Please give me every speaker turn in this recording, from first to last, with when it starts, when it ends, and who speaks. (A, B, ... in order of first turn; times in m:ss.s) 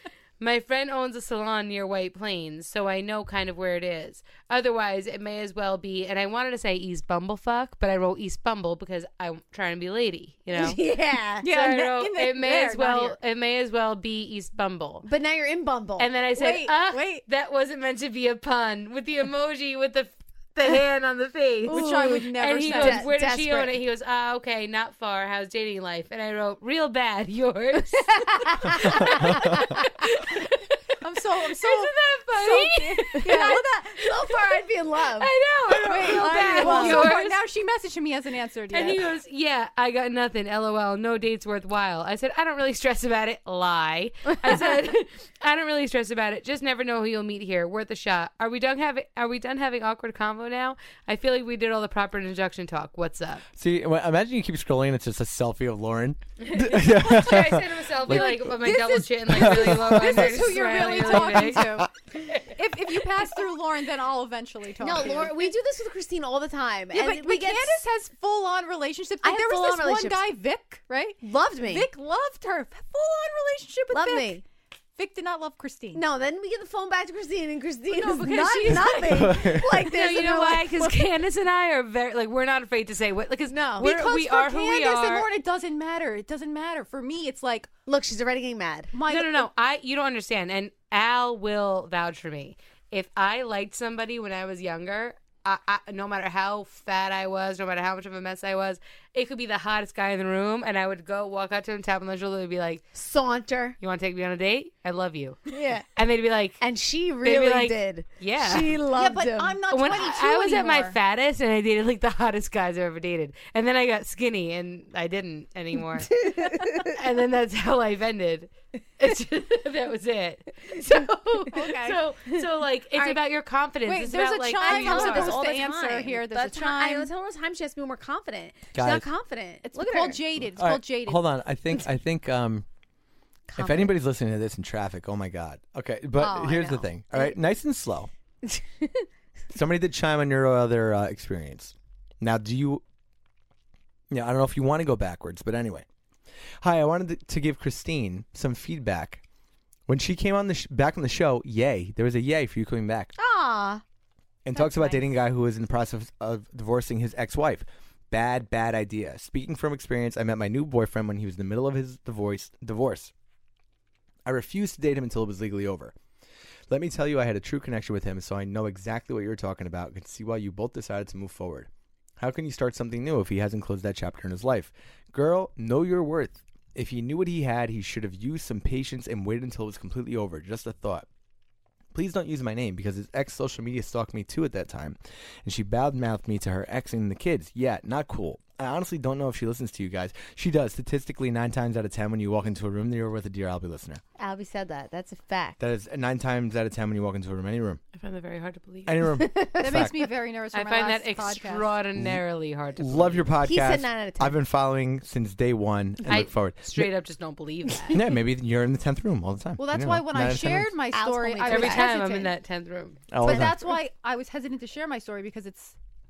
0:00.4-0:10.8 A
0:10.5-0:10.8 B
0:10.6-0:11.4 C
0:11.4-0:13.2 B
0:11.4-0:15.1 A
0:15.0-0:16.1 C
0:16.0-0:31.0 A
0:16.4-0:17.2 B
0:21.7-0:23.7 C
0:21.7-0:23.1 B
0:27.9-0:29.8 C
0:29.2-0:29.6 D
0:31.0-0:34.0 B
0:31.5-0:34.4 A
0:33.3-0:35.3 C
0:35.2-0:37.4 A
0:35.7-0:39.1 B
0:35.8-0:37.2 C
0:38.7-0:53.4 A
0:53.6-0:58.5 D
0:56.4-1:02.6 A
0:58.0-1:01.9 B
0:59.3-1:00.5 D
1:01.2-1:01.9 D
1:02.4-1:05.5 B
1:04.8-1:07.8 C
1:06.9-1:14.4 B
1:09.2-1:10.3 C
1:11.2-1:11.9 C
1:13.9-1:14.4 C
1:15.0-1:16.0 B
1:15.9-1:21.0 C
1:17.9-1:19.5 B
1:19.0-1:19.7 D
1:19.7-1:25.3 A
1:23.5-1:23.9 C
1:23.8-1:27.7 B
1:27.9-1:28.9 C
1:28.9-1:29.5 B
1:29.1-1:42.8 A
1:42.9-1:43.8 C
1:43.8-1:45.4 A
1:45.5-1:45.9 C
1:46.0-1:46.6 A
1:46.6-1:49.6 C
1:47.2-1:48.8 A
1:48.9-1:51.0 B
1:49.7-1:56.2 A
1:56.1-1:56.9 C
1:56.9-2:05.4 A
2:01.5-2:02.0 B
2:03.8-2:07.1 B
2:04.6-2:10.2 C
2:08.7-2:09.1 D
2:09.6-2:11.3 B
2:10.4-2:12.6 D
2:13.5-2:14.0 C
2:13.6-2:18.1 D
2:16.2-2:17.4 C
2:18.4-2:19.1 C
2:19.5-2:22.8 D
2:24.1-2:25.9 D
2:26.6-2:29.2 D
2:29.9-2:33.1 D
2:33.2-2:33.8 C
2:34.4-2:43.1 D
2:34.5-2:35.1 B
2:44.2-2:45.9 D
2:46.7-3:01.1 D
3:01.9-3:14.0 D
3:14.2-3:15.6 C
3:15.6-3:17.8 D
3:18.0-3:19.0 A
3:18.9-3:20.0 D
3:19.1-3:19.9 C
3:19.6-3:21.8 B
3:20.5-3:23.3 A
3:22.8-3:26.9 D
3:23.4-3:24.4 C
3:26.1-3:28.0 A
3:27.9-3:30.8 D
3:29.6-3:32.2 B
3:30.9-3:32.3 C
3:31.5-3:33.0 A
3:33.1-3:33.6 D
3:33.2-3:35.8 B
3:33.2-3:33.6 C